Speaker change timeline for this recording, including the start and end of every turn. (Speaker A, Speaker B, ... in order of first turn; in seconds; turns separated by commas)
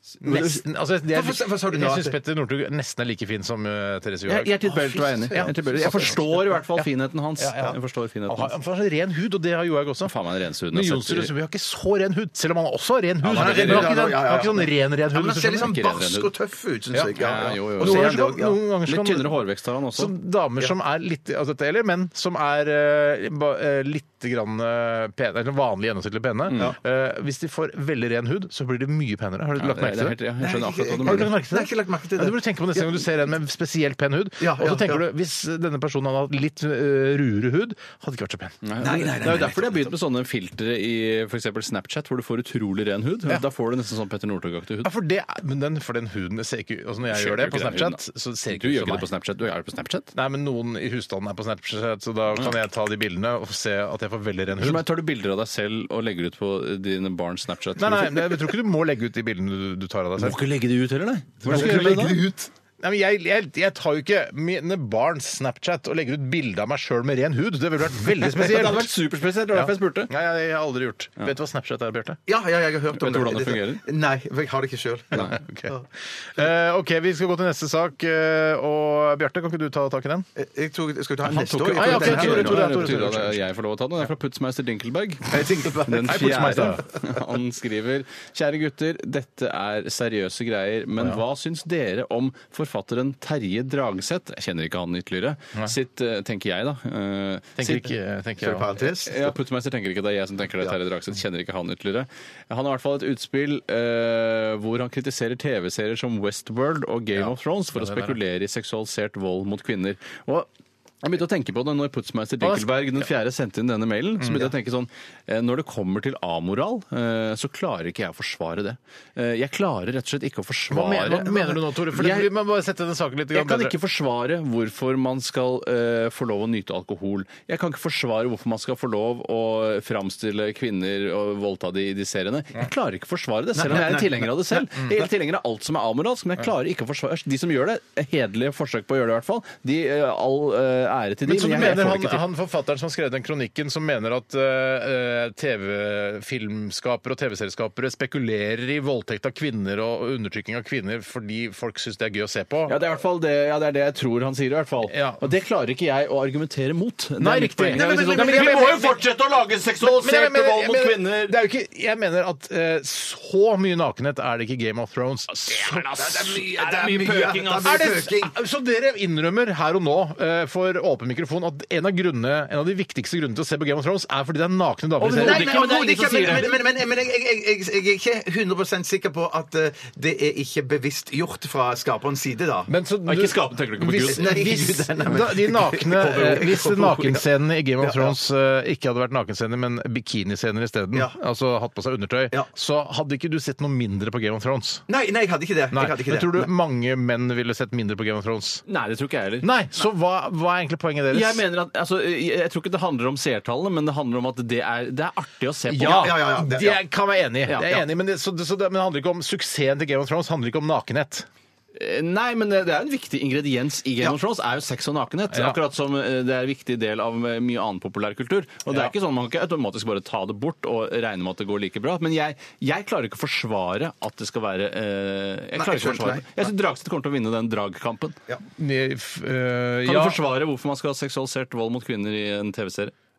Speaker A: 0.2-0.6, Speaker B: 0.2-4.5, Speaker C: 1.1-2.2, Speaker A: 4.3-8.5, Speaker C: 4.7-6.4, Speaker B: 5.3-6.2, Speaker B: 7.4-10.1, Speaker A: 10.0-11.3, Speaker B: 10.7-15.8, Speaker A: 13.2-14.1, Speaker C: 13.3-18.6, Speaker A: 15.6-16.3, Speaker B: 16.9-19.4, Speaker A: 17.2-18.1, Speaker A: 18.9-20.1, Speaker B: 19.9-30.2, Speaker A: 26.5-26.7, Speaker A: 29.6-31.3, Speaker C: 30.4-33.0, Speaker B: 31.0-38.6, Speaker C: 34.4-35.0, Speaker A: 38.6-44.9, Speaker C: 38.8-39.9, Speaker B: 44.8-49.1, Speaker A: 47.1-50.1, Speaker B: 50.1-54.9, Speaker A: 54.6-58.4, Speaker B: 57.8-60.4, Speaker A: 60.2-62.2, Speaker C: 61.4-62.5, Speaker B: 61.5-62.2, Speaker B: 62.8-68.9, Speaker A: 68.2-70.1, Speaker B: 69.5-72.2, Speaker C: 72.3-75.8, Speaker A: 72.9-73.8, Speaker B: 75.2-80.3, Speaker C: 80.4-83.0, Speaker A: 81.3-97.9, Speaker B: 81.8-83.4, Speaker C: 85.3-86.7, Speaker B: 86.0-86.8, Speaker B: 97.6-98.7, Speaker C: 98.4-99.3, Speaker A: 99.0-110.5, Speaker B: 107.1-108.2, Speaker A: 111.0-122.3, Speaker B: 112.4-113.0, Speaker B: 114.2-114.5, Speaker B: 120.7-123.8, Speaker A: 123.3-142.2, Speaker C: 133.6-134.4, Speaker B: 141.2-152.8, Speaker A: 152.7-161.4, Speaker B: 154.9-155.2, Speaker B: 157.2-159.0, Speaker C: 157.8-159.0, Speaker B: 159.8-166.4, Speaker A: 165.3-167.9, Speaker C: 166.0-168.4, Speaker B: 167.6-175.7, Speaker A: 175.0-176.6, Speaker C: 175.1-182.7, Speaker B: 176.2-176.5, Speaker B: 182.7-194.8, Speaker A: 183.1-184.5, Speaker C: 184.1-187.2, Speaker C: 187.8-188.2, Speaker C: 194.9-196.5, Speaker B: 195.7-198.6, Speaker A: 198.7-199.5, Speaker B: 199.4-201.4, Speaker A: 201.1-206.1, Speaker B: 205.7-211.3, Speaker C: 205.8-206.8, Speaker A: 207.5-207.9, Speaker A: 211.8-228.2, Speaker B: 215.3-215.6, Speaker C: 225.6-226.4, Speaker B: 228.6-230.2, Speaker A: 229.8-232.9